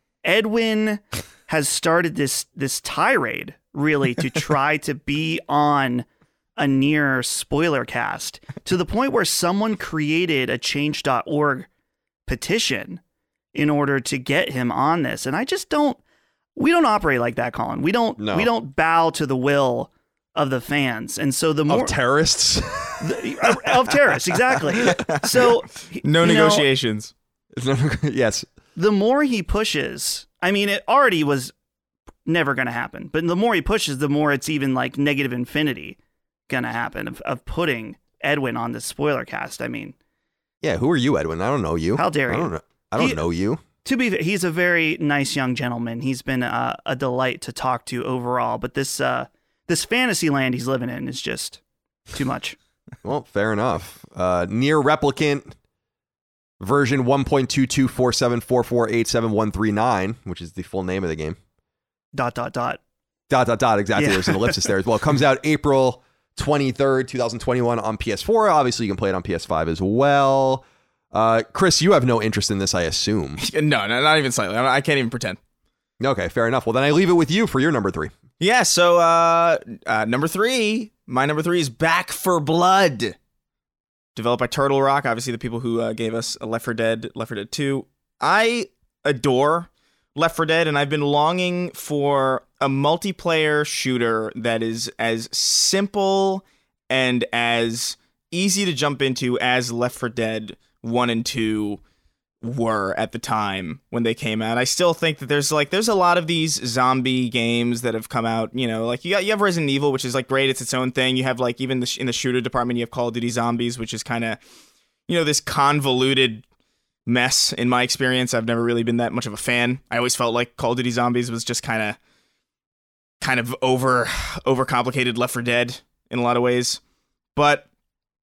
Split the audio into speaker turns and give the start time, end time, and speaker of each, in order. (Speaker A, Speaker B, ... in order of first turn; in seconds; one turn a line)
Speaker A: 0.2-6.1
Speaker A: 6.6-11.7
Speaker A: 12.3-13.0
Speaker A: 13.5-16.0
Speaker A: 16.6-21.9
Speaker B: 18.2-18.5
Speaker B: 21.7-25.0
Speaker A: 23.0-26.7
Speaker C: 26.0-27.1
Speaker B: 27.6-28.5
Speaker A: 28.8-31.5
Speaker A: 32.3-36.0
Speaker A: 36.5-40.0
Speaker B: 40.6-43.6
Speaker A: 42.0-43.2
Speaker A: 43.8-51.6
Speaker A: 52.1-52.6
Speaker B: 53.0-55.5
Speaker B: 56.6-61.4
Speaker A: 62.1-62.8
Speaker B: 63.3-73.4
Speaker A: 64.0-64.7
Speaker C: 73.4-75.4
Speaker B: 76.0-78.1
Speaker C: 78.4-83.2
Speaker C: 84.2-101.8
Speaker C: 102.4-114.4
Speaker C: 115.1-116.4
Speaker C: 117.1-122.0
Speaker C: 123.2-126.8
Speaker C: 127.4-127.7